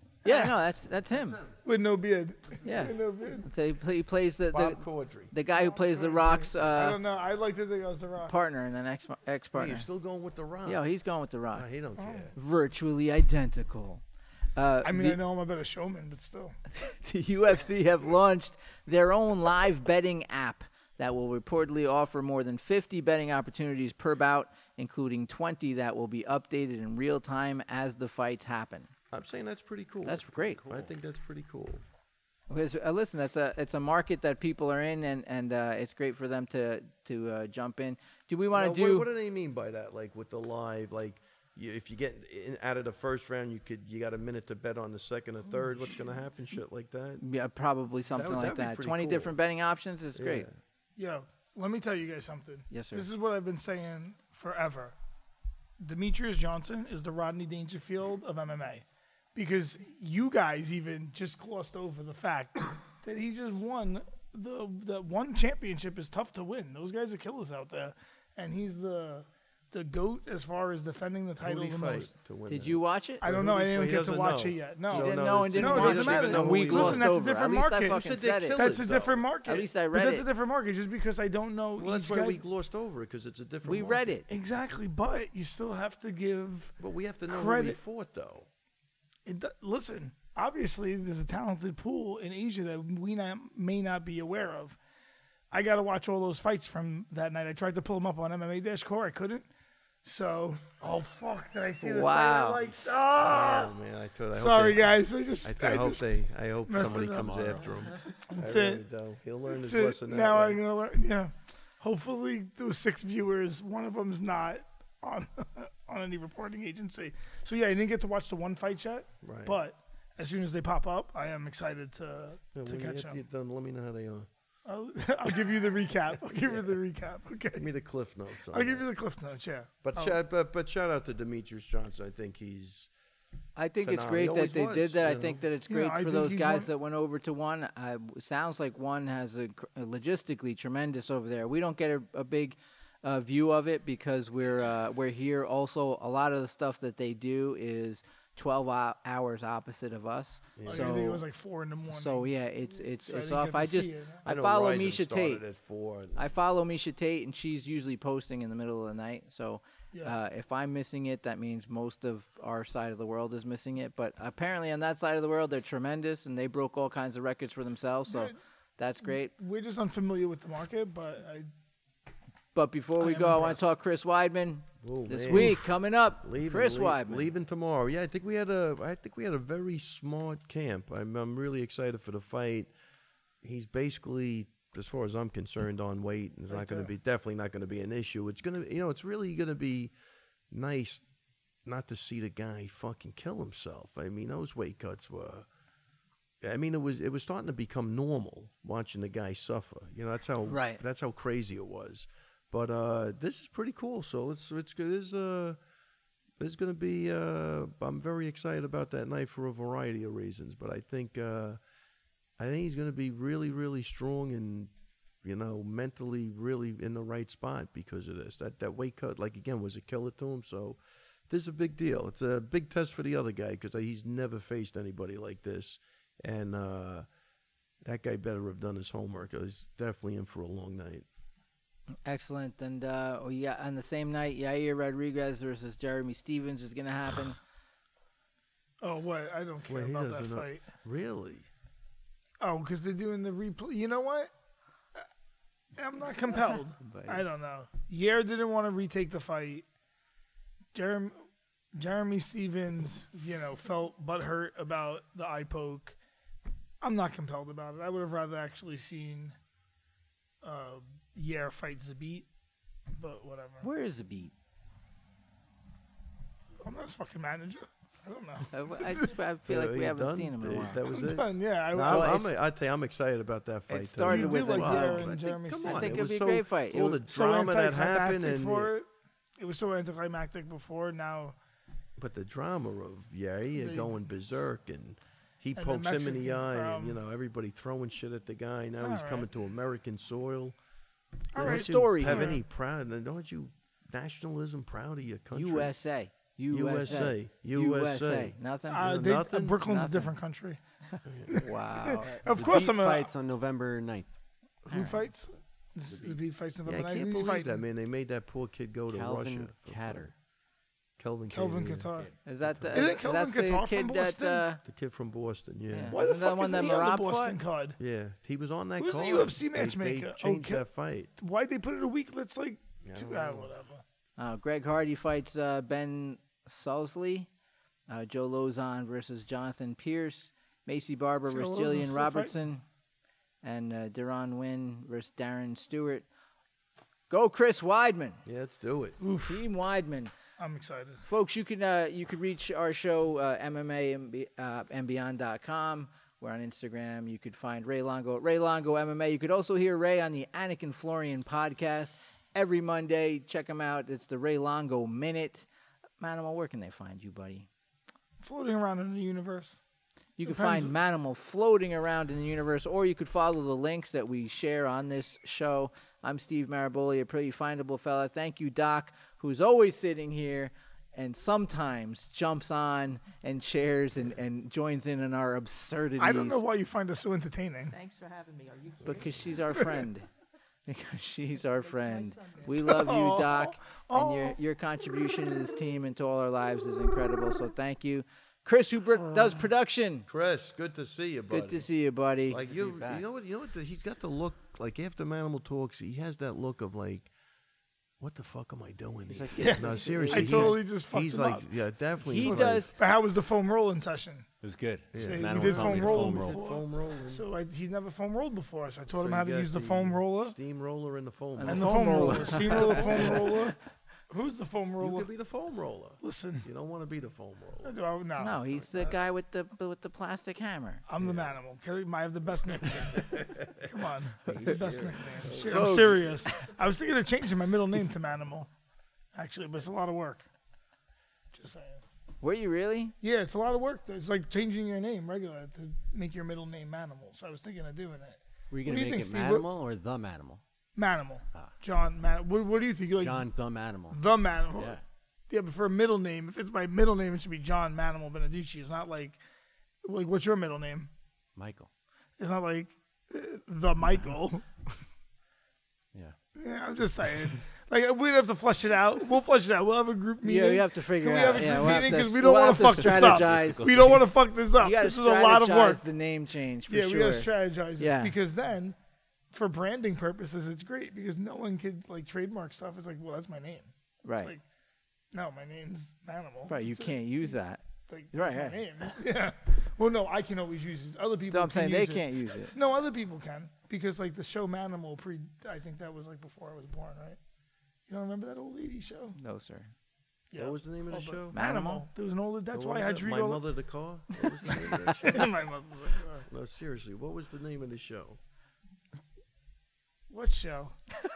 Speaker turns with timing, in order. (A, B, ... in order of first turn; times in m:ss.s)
0:00.2-0:00.6 A
0:00.2-0:01.4 B
0:01.1-0:01.5 C
0:01.6-0:03.5 A
0:02.6-0:07.0 B
0:04.5-0:05.3 C
0:05.5-0:08.4 A
0:08.3-0:09.9 B
0:09.5-0:10.8 C
0:10.6-0:11.7 B
0:11.5-0:12.3 C
0:12.0-0:12.3 A
0:12.4-0:14.0 B
0:14.6-0:15.2 B
0:14.8-0:16.6 A
0:16.7-0:28.9 B
0:29.1-0:31.8 C
0:30.0-0:30.6 B
0:32.5-0:39.1 B
0:38.5-0:47.2 C
0:47.2-0:50.5 B
0:48.1-0:49.4 C
0:50.2-0:50.5 C
0:51.0-0:55.0 A
0:52.7-0:53.1 B
0:55.8-0:58.8 A
0:59.4-1:12.1 A
1:11.4-1:17.2 C
1:12.5-1:13.2 B
1:13.2-1:22.4 A
1:14.9-1:18.7 B
1:17.8-1:19.2 C
1:19.4-1:20.3 B
1:21.8-1:24.1 C
1:23.6-1:24.3 B
1:24.3-1:26.8 A
1:26.8-1:28.5 C
1:27.3-1:27.8 A
1:29.3-1:34.8 A
1:35.5-1:39.5 A
1:40.0-1:43.7 A
1:41.8-1:42.7 B
1:43.2-1:50.6 C
1:44.3-1:46.1 A
1:46.6-1:47.6 A
1:46.8-1:47.7 D
1:48.2-1:48.8 A
1:49.5-2:03.2 A
1:59.2-1:59.6 C
2:02.6-2:04.3 C
2:04.7-2:07.7 A
2:07.6-2:08.8 C
2:08.5-2:10.2 A
2:09.8-2:12.9 C
2:13.6-2:31.2 B
2:13.8-2:15.4 C
2:15.7-2:16.7 A
2:30.6-2:31.0 C
2:30.7-2:34.2 A
2:31.9-2:35.4 B
2:34.2-2:36.3 C
2:36.2-2:49.3 B
2:48.1-2:48.3 A
2:49.0-2:51.5 A
2:52.5-2:57.3 B
2:53.0-2:53.7 A
2:54.8-3:02.7 C
3:03.4-3:09.9 C
3:06.6-3:06.9 A
3:10.5-3:11.0 C
3:11.6-3:15.5 C
3:16.4-3:25.6 C
3:20.5-3:20.8 B
3:26.4-3:31.6 C
3:32.4-3:34.7 C
3:35.2-3:47.1 C
3:47.8-3:51.1 C
3:52.1-3:57.4 B
3:58.8-4:00.6 A
3:59.7-4:01.5 C
4:02.4-4:04.3 A
4:05.8-4:09.6 A
4:06.8-4:07.2 B
4:10.7-4:11.2 A
4:11.8-4:16.0 A
4:16.8-4:19.4 A
4:20.4-4:22.3 A
4:23.0-4:23.6 A
4:23.6-4:24.3 B
4:26.6-4:29.1 A
4:28.5-4:30.8 B
4:29.5-4:38.7 C
4:30.8-4:32.3 A
4:31.9-4:32.3 B
4:33.7-4:37.0 B
4:34.0-4:36.1 A
4:37.1-4:38.9 A
4:39.4-4:41.4 A
4:42.0-4:50.6 C
4:43.6-4:44.0 A
4:45.6-4:47.0 A
4:48.8-4:49.3 A
4:51.3-4:52.4 A
4:51.4-4:52.4 B
4:51.4-4:55.7 C
4:55.3-4:58.9 B
4:56.5-4:59.6 C
4:58.7-5:00.6 A
4:59.6-5:00.1 B
5:01.3-5:02.1 B
5:01.3-5:03.1 A
5:02.2-5:04.1 D
5:04.7-5:07.6 A
5:04.7-5:05.0 B
5:06.7-5:10.1 C
5:08.9-5:10.1 D
5:11.0-5:11.9 C
5:11.3-5:12.1 A
5:12.2-5:14.6 B
5:12.4-5:13.0 C
5:12.7-5:14.5 A
5:14.6-5:16.0 C
5:15.7-5:17.4 B
5:15.9-5:17.8 A
5:17.8-5:21.1 C
5:18.8-5:20.7 A
5:21.2-5:23.8 A
5:22.8-5:23.5 C
5:24.2-5:27.3 B
5:27.9-5:32.6 B
5:31.3-5:32.4 A
5:33.4-5:36.0 B
5:37.1-5:38.2 B
5:38.2-5:39.0 C
5:39.0-5:39.4 A
5:39.2-5:40.1 B
5:40.4-5:41.0 A
5:41.0-5:55.5 B
5:56.0-5:57.5 B
5:58.2-5:59.6 A
6:00.2-6:16.4 B
6:00.2-6:00.7 A
6:16.0-6:17.8 A
6:17.7-6:19.6 E
6:18.8-6:20.1 B
6:20.7-6:30.1 B
6:21.3-6:22.7 E
6:22.5-6:24.4 A
6:30.1-6:31.7 C
6:31.3-6:32.4 B
6:32.3-6:37.1 C
6:32.4-6:33.0 D
6:38.0-6:42.7 C
6:39.1-6:40.6 D
6:39.4-6:41.5 A
6:42.0-6:42.8 B
6:42.1-6:44.3 A
6:44.4-6:46.5 D
6:44.9-6:47.2 C
6:45.0-6:50.4 A
6:48.9-6:53.2 C
6:51.4-6:53.4 B
6:51.4-6:53.6 A
6:54.1-6:55.1 A
6:54.8-6:57.8 C
6:56.0-6:56.5 A
6:57.6-6:58.4 A
6:58.2-7:00.8 B
6:58.5-6:58.8 C
7:00.9-7:08.5 A
7:01.0-7:01.3 C
7:03.0-7:03.6 C
7:04.3-7:06.0 D
7:04.6-7:06.2 C
7:05.3-7:06.3 B
7:09.2-7:10.3 A
7:11.3-7:11.8 A
7:12.2-7:12.9 B
7:13.0-7:19.5 A
7:18.5-7:20.4 D
7:20.8-7:23.3 A
7:23.0-7:24.0 D
7:23.9-7:24.8 A
7:24.6-7:24.8 D
7:25.3-7:29.2 A
7:29.8-7:30.9 A
7:31.4-7:31.7 D
7:32.2-7:34.8 A
7:36.4-7:45.8 A
7:40.2-7:43.9 B
7:42.8-7:44.0 D
7:44.6-7:48.1 B
7:46.7-7:48.8 A
7:49.3-7:54.4 A
7:54.0-7:54.3 B
7:55.1-7:57.3 A
7:56.5-7:58.6 B
7:57.9-8:07.2 A
8:01.3-8:02.6 B
8:07.9-8:09.2 A
8:09.2-8:09.7 B
8:10.3-8:13.5 A
8:10.4-8:11.4 C
8:11.3-8:11.8 B
8:12.5-8:15.3 C
8:14.9-8:16.3 A
8:16.3-8:18.2 C
8:20.1-8:20.8 A